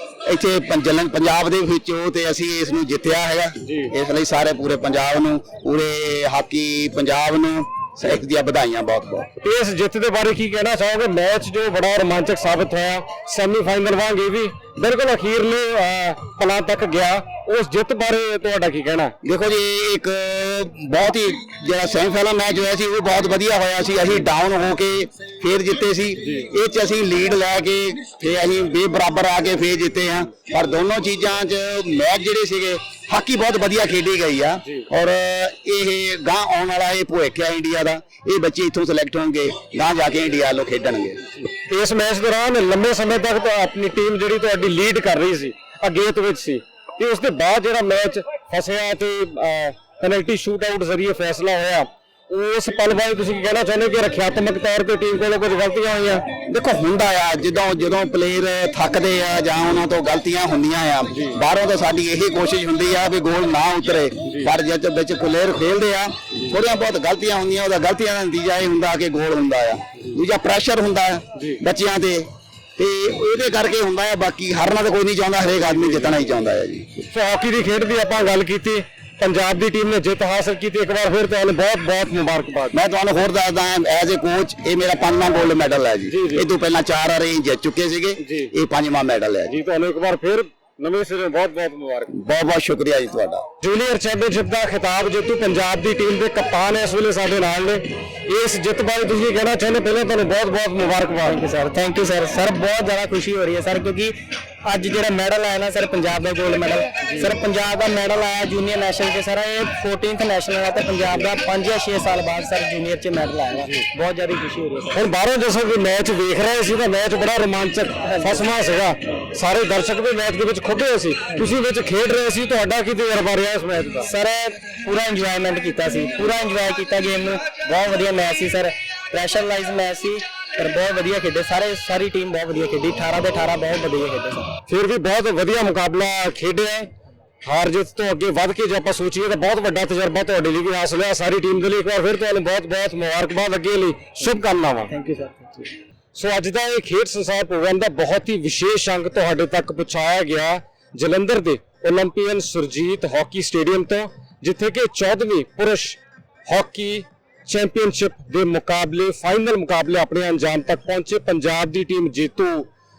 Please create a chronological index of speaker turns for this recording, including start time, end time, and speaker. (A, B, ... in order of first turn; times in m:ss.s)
0:00.2-0:09.3 A
0:03.6-0:03.9 B
0:09.4-0:19.1 B
0:19.2-0:41.2 A
0:26.2-0:26.5 B
0:41.3-0:56.3 B
0:56.4-1:16.9 A
1:01.1-1:01.4 B
1:04.2-1:04.5 B
1:11.3-1:11.6 B
1:15.6-1:16.2 B
1:17.1-1:22.8 B
1:22.7-1:29.5 A
1:26.1-1:26.5 B
1:28.2-1:28.5 B
1:29.5-1:32.1 B
1:32.1-1:33.4 A
1:33.6-1:41.4 B
1:41.2-1:55.0 C
1:47.0-1:47.3 B
1:54.9-2:04.1 B
1:58.0-1:58.4 C
2:04.0-2:14.5 C
2:14.7-2:16.9 B
2:17.4-2:24.9 B
2:24.9-2:25.7 C
2:26.1-2:42.7 B